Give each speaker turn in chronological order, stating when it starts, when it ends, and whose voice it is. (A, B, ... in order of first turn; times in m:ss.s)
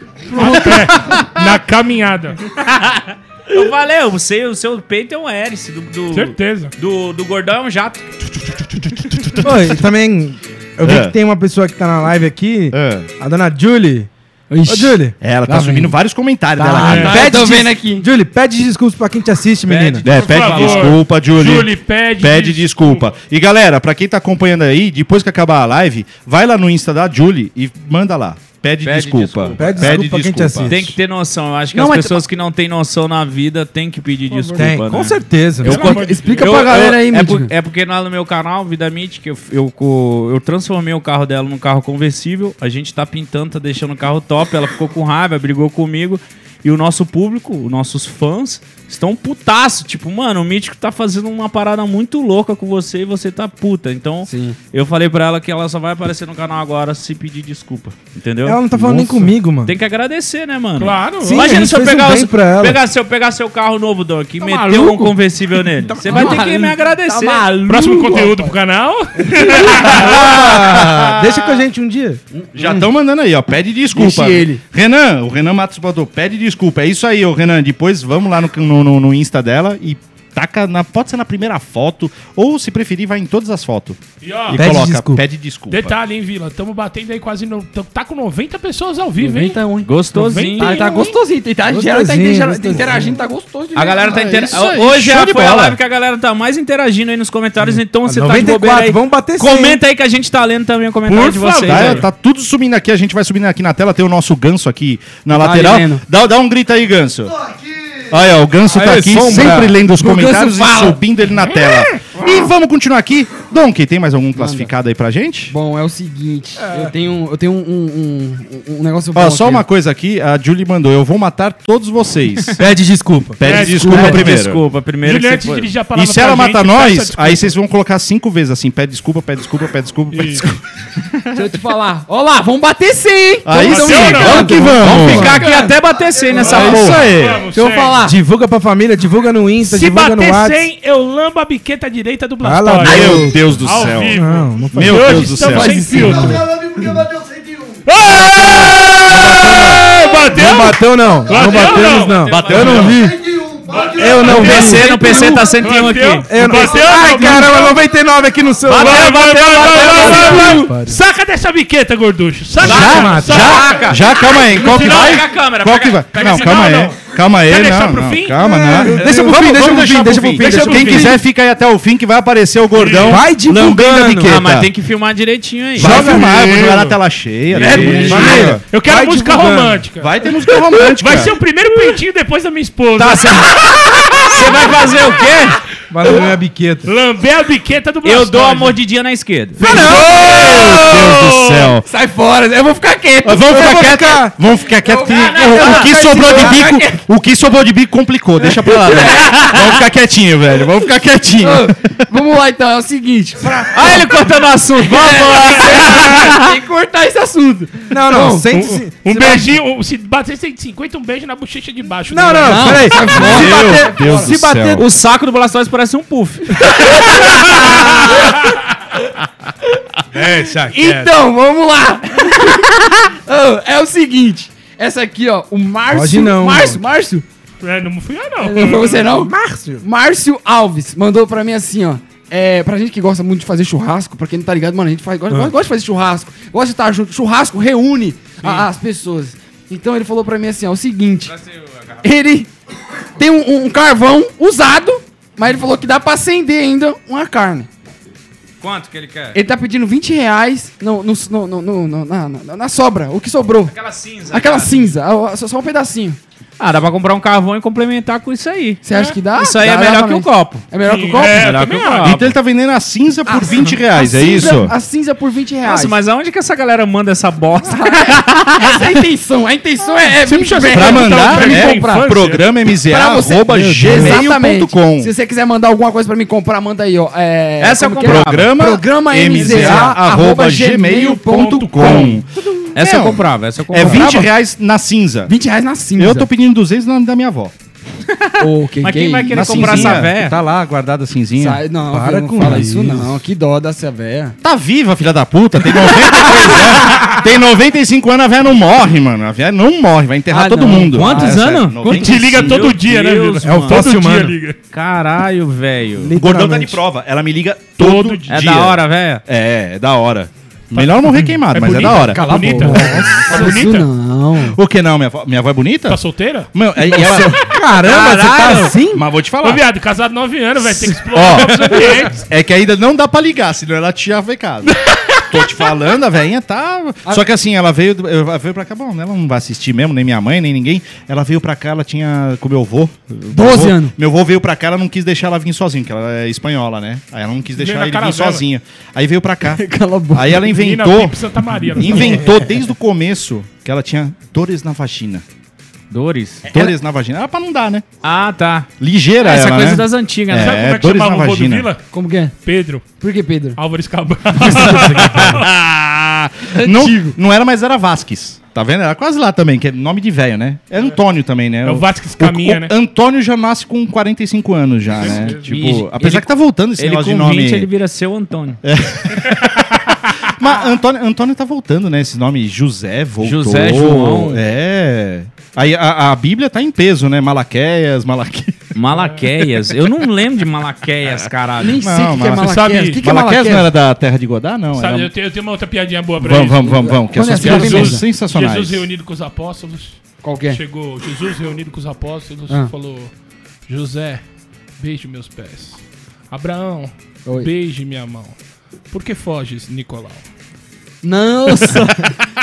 0:00.3-0:02.4 A
0:00.4-0:01.2 B
0:02.6-0:09.5 C
0:06.1-0:06.7 A
0:08.5-0:09.4 A
0:09.4-0:14.1 D
0:10.8-0:11.1 B
0:12.7-0:13.1 B
0:14.5-0:16.0 E
0:14.7-0:15.2 D
0:15.2-0:17.3 B
0:16.6-0:20.0 D
0:16.6-0:18.1 E
0:17.0-0:17.3 A
0:19.6-0:21.1 C
0:20.0-0:30.9 B
0:20.1-0:23.1 A
0:28.8-1:08.2 C
0:29.6-0:31.0 D
0:31.7-0:32.2 E
0:34.3-0:34.7 A
0:34.6-0:35.9 D
0:35.6-0:36.8 A
0:35.6-0:37.5 E
0:54.3-0:54.6 E
0:58.4-0:59.7 D
1:00.8-1:01.6 A
1:01.2-1:02.8 D
1:04.4-1:05.1 E
1:05.9-1:06.7 D
1:06.0-1:08.5 E
1:07.6-1:10.2 A
1:09.2-1:09.9 E
1:09.7-1:12.2 D
1:09.7-1:11.6 B
1:12.3-1:12.9 E
1:12.5-1:26.0 B
1:13.9-1:14.6 E
1:24.2-1:24.7 A
1:24.5-1:25.2 D
1:25.7-1:29.6 A
1:29.2-1:34.6 E
1:29.8-1:31.0 C
1:30.2-1:31.2 A
1:31.7-1:33.2 D
1:33.8-1:42.1 C
1:34.2-1:35.8 B
1:37.6-1:39.8 D
1:41.1-1:42.1 A
1:41.7-1:47.5 B
1:45.3-1:46.0 E
1:48.1-1:55.5 B
1:48.7-1:49.8 D
1:49.2-1:51.0 E
1:54.4-1:54.7 E
1:55.5-1:59.7 E
1:56.6-1:56.9 A
1:59.1-2:02.6 B
2:02.6-2:03.9 D
2:03.4-2:04.6 B
2:03.4-2:04.4 A
2:03.5-2:05.7 C
2:05.0-2:07.6 A
2:06.0-2:10.6 B
2:10.1-2:10.5 A
2:11.3-2:16.5 E
2:13.5-2:15.4 B
2:13.6-2:15.4 A
2:14.8-2:17.2 C
2:14.8-2:15.3 D
2:16.3-2:18.1 A
2:16.3-2:17.5 B
2:17.5-2:18.2 E
2:18.0-2:20.7 D
2:19.6-2:26.5 A
2:22.4-2:25.3 D
2:22.8-2:25.8 B
2:25.4-2:26.4 E
2:25.9-2:35.5 D
2:27.9-2:33.0 A
2:29.0-2:29.8 B
2:31.3-2:33.0 C
2:32.5-2:33.0 B
2:33.6-2:37.8 A
2:34.0-2:36.6 C
2:36.3-2:41.0 D
2:38.7-2:45.3 A
2:38.7-2:40.7 C
2:42.6-2:46.8 C
2:42.6-2:54.7 B
2:42.7-2:43.6 D
2:46.1-2:51.1 A
2:48.4-2:51.2 D
2:49.0-2:49.3 E
2:50.3-2:51.1 E
2:52.7-2:53.2 A
2:53.0-2:54.4 D
2:54.2-2:56.2 C
2:55.8-2:56.9 D
2:55.8-2:58.6 B
2:57.5-2:58.5 C
2:57.6-2:59.9 D
2:57.7-2:58.0 E
2:57.8-3:04.8 A
3:00.0-3:01.4 B
3:03.0-3:05.6 C
3:05.9-3:06.9 D
3:06.8-3:08.8 A
3:08.0-3:09.9 C
3:09.6-3:11.7 A
3:09.6-3:11.9 B
3:10.1-3:11.1 E
3:11.8-3:14.0 E
3:13.2-3:22.0 B
3:13.5-3:14.3 D
3:14.7-3:17.0 E
3:15.0-3:15.9 C
3:16.1-3:16.8 D
3:18.4-3:19.7 E
3:21.4-3:24.0 E
3:23.4-3:24.0 D
3:23.7-3:26.5 C
3:24.8-3:28.5 E
3:27.9-3:29.5 D
3:28.5-3:33.3 A
3:32.1-3:34.9 D
3:32.4-3:34.3 E
3:33.1-3:34.8 B
3:33.2-3:33.5 C
3:34.7-3:38.0 C
3:36.6-3:38.3 E
3:40.1-3:41.1 D
3:40.6-3:47.2 E
3:45.9-3:46.8 D
3:47.6-3:49.0 A
3:48.4-4:01.3 E
3:49.0-3:49.8 D
3:58.4-3:58.7 A
4:01.3-4:02.0 C
4:02.0-4:02.5 E
4:03.2-4:07.7 E
4:08.6-4:09.4 C
4:09.3-4:13.7 E
4:13.7-4:15.0 C
4:14.3-4:16.2 E
4:16.6-4:18.8 C
4:18.8-4:21.4 E
4:18.9-4:19.2 A
4:19.3-4:22.4 C
4:20.8-4:22.2 A
4:22.0-4:24.8 B
4:23.3-4:26.0 E
4:25.6-4:28.9 C
4:27.6-4:32.1 E
4:30.2-4:32.5 A
4:30.7-4:35.1 B
4:32.8-4:42.2 E
4:33.5-4:34.2 D
4:37.6-4:45.3 B
4:38.0-4:38.5 C
4:39.4-4:39.7 C
4:41.8-4:42.0 A
4:42.8-4:44.2 C
4:43.8-4:44.2 E
4:45.3-4:46.3 E
4:46.0-4:47.6 B
4:48.1-4:50.4 C
4:48.4-4:50.0 E
4:49.3-4:51.6 B
4:51.4-4:54.4 E
4:51.9-4:53.2 D
4:54.4-5:02.8 B
5:00.3-5:01.4 E
5:00.9-5:01.4 D
5:00.9-5:03.9 C
5:01.8-5:04.6 A
5:03.4-5:04.4 D
5:04.7-5:06.2 C
5:06.0-5:06.8 D
5:06.2-5:12.3 B
5:07.8-5:08.4 A
5:08.3-5:09.2 C
5:11.1-5:11.6 D
5:11.5-5:13.9 A
5:11.8-5:14.6 E
5:12.6-5:13.3 D
5:14.4-5:17.4 B
5:15.9-5:16.5 A
5:17.0-5:19.0 D
5:17.8-5:18.8 C
5:18.4-5:19.7 B
5:19.4-5:22.3 A
5:21.1-5:45.2 B
5:24.7-5:25.2 A
5:33.3-5:33.9 E
5:37.6-5:38.4 A
5:39.5-5:40.4 E
5:40.4-5:42.4 A
5:45.9-5:46.4 C
5:46.5-5:47.9 B
5:48.0-5:48.7 C
5:48.8-5:51.7 B
5:49.2-5:50.6 C
5:50.3-5:53.0 A
5:51.9-5:52.4 E
5:53.0-5:53.6 E
5:53.6-5:55.4 A
5:54.6-6:07.7 B
5:56.5-5:57.2 E
6:01.6-6:02.7 A
6:05.0-6:05.5 A
6:05.0-6:08.6 C
6:08.6-6:18.6 B
6:13.2-6:14.4 C
6:18.7-6:21.8 C
6:21.6-6:23.7 E
6:21.8-6:25.1 B
6:22.3-6:23.1 A
6:24.7-6:33.1 A
6:26.2-6:28.9 B
6:26.8-6:28.1 E
6:30.2-6:30.6 E
6:33.7-6:34.2 A
6:34.8-6:38.4 A
6:37.2-6:37.5 E
6:38.9-6:40.2 A
6:41.0-6:42.1 E
6:41.6-6:41.9 A